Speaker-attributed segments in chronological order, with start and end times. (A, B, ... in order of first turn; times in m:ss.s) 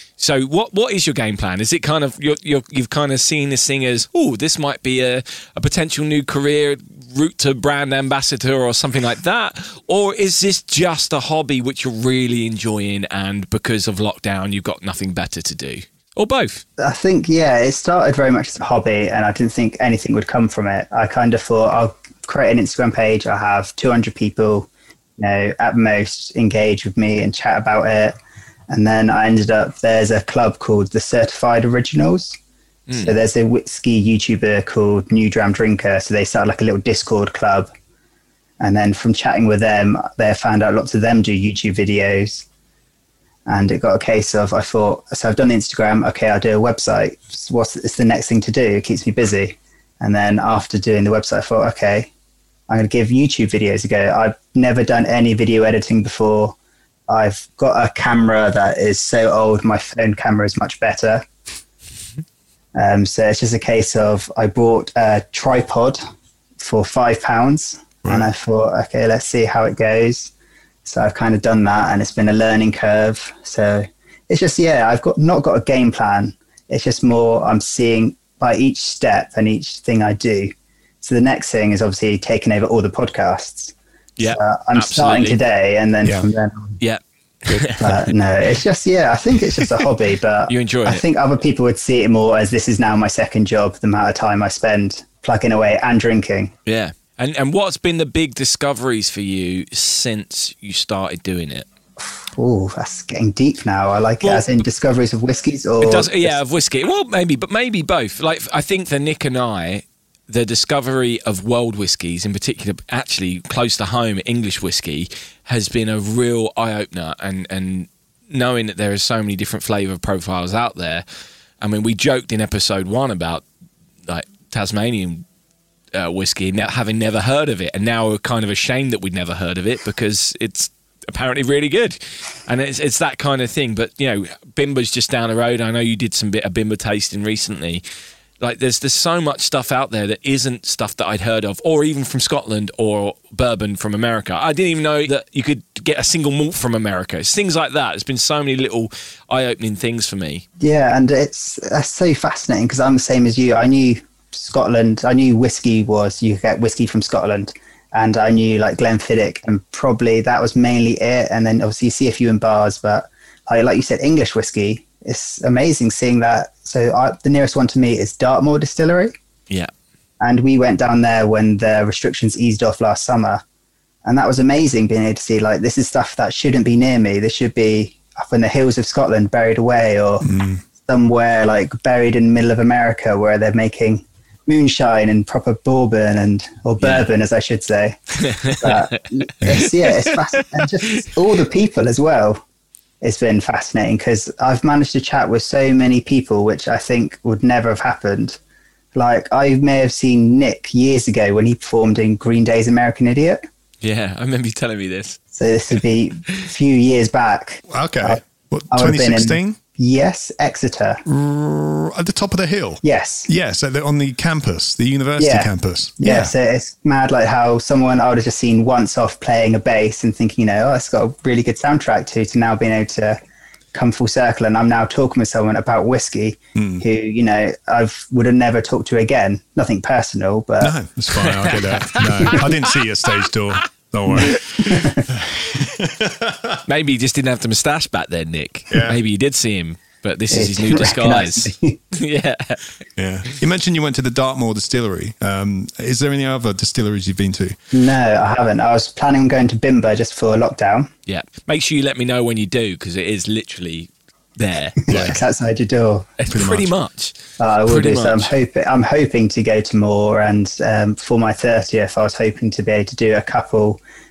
0:00.2-0:16.6 A
0:16.8-0:28.2 B
0:28.7-0:32.4 B
0:33.0-0:37.7 B
0:38.6-0:42.5 B
0:43.5-0:52.1 B
0:52.7-0:56.6 B
0:57.1-1:01.3 B
1:02.8-1:06.0 B
1:06.6-1:10.3 B
1:10.8-1:26.8 B
1:24.2-1:25.4 A
1:26.8-1:28.1 A
1:27.8-1:36.5 B
1:30.5-1:31.0 A
1:36.7-1:41.7 A
1:42.1-1:46.4 B
1:44.2-1:44.6 A
1:45.8-2:01.0 A
2:01.6-2:03.4 A
2:04.1-2:05.3 A
2:05.9-2:17.8 A
2:18.4-2:30.4 A
2:30.6-2:49.1 B
2:50.2-2:53.4 B
2:54.0-3:00.3 B
3:00.2-3:00.6 C
3:00.8-3:12.4 B
3:08.2-3:08.8 A
3:09.8-3:10.2 A
3:13.0-3:18.4 B
3:18.9-3:23.4 B
3:23.8-3:25.2 A
3:25.3-3:31.0 B
3:27.7-3:29.6 C
3:31.1-3:36.3 C
3:32.8-3:33.3 B
3:35.2-3:43.2 B
3:43.7-3:50.8 B
3:46.6-3:46.8 C
3:50.6-3:56.6 C
3:51.2-3:52.6 A
3:54.1-3:55.1 B
3:56.7-4:02.6 A
3:58.7-3:59.0 C
4:00.3-4:01.8 B
4:03.0-4:07.6 C
4:07.7-4:10.9 B
4:11.1-4:15.1 A
4:14.9-4:16.1 B
4:14.9-4:15.2 C
4:16.2-4:18.3 A
4:16.3-4:16.7 C
4:17.4-4:23.8 B